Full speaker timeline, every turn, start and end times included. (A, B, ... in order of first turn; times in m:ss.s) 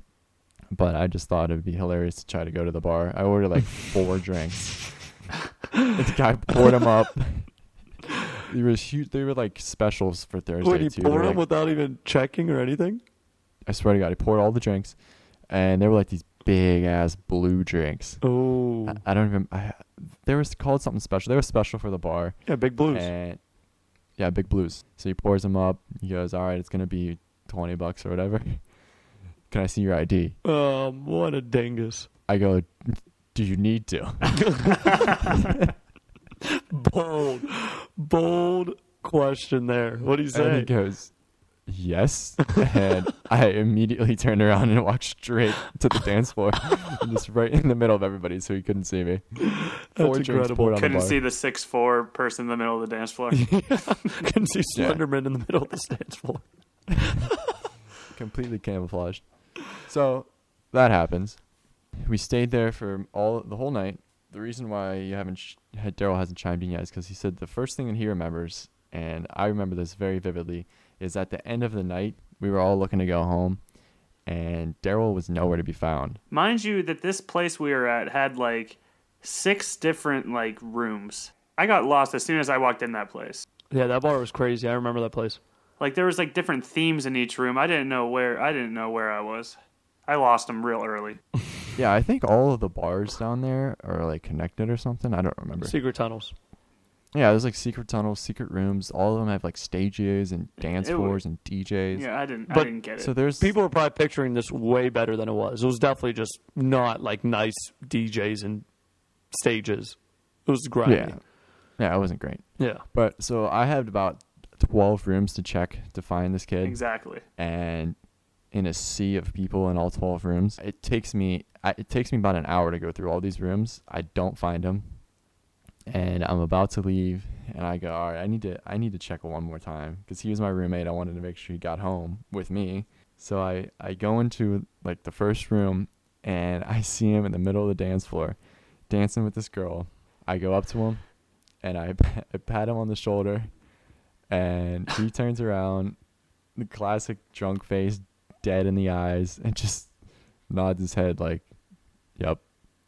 0:00.7-0:05.1 A
0:05.9-0:07.5 A
0:08.4-0:11.4 A
0:10.6-0:13.0 B
0:13.7-0:15.0 A
0:15.5-0:18.2 A
0:18.2-0:19.0 B
0:18.9-0:22.4 A
0:22.5-0:23.1 B
0:22.9-0:23.4 A
0:24.2-0:28.6 A
0:29.5-0:30.4 A
0:30.4-0:32.1 B
0:32.3-0:34.6 A
0:34.3-0:35.3 B
0:35.3-0:35.7 A
0:36.5-0:40.7 B
0:40.3-0:41.1 A
0:41.7-0:51.2 A
0:49.4-0:50.8 B
0:50.8-0:53.6 C
0:53.3-0:56.4 B
0:54.8-0:55.0 A
0:58.1-1:01.4 A
1:02.0-1:13.6 A
1:14.3-1:16.2 A
1:16.3-1:23.4 C
1:23.7-1:25.4 B
1:25.8-1:29.6 C
1:30.1-1:31.2 C
1:31.8-1:35.8 A
1:35.6-1:36.3 B
1:37.1-1:42.1 A
1:40.7-1:41.2 C
1:41.9-1:43.1 C
1:42.5-1:42.8 B
1:43.0-1:43.5 A
1:43.4-1:48.6 B
1:49.3-1:51.2 B
1:50.8-1:51.2 A
1:51.8-1:56.8 A
1:52.6-1:52.8 B
1:56.6-1:57.2 C
1:57.4-1:58.0 A
1:58.5-2:04.9 A
2:05.9-2:18.4 A
2:18.9-2:21.0 A
2:21.6-2:23.5 A
2:24.3-2:26.0 A
2:26.6-2:29.9 A
2:30.5-2:31.4 A
2:32.2-2:32.4 A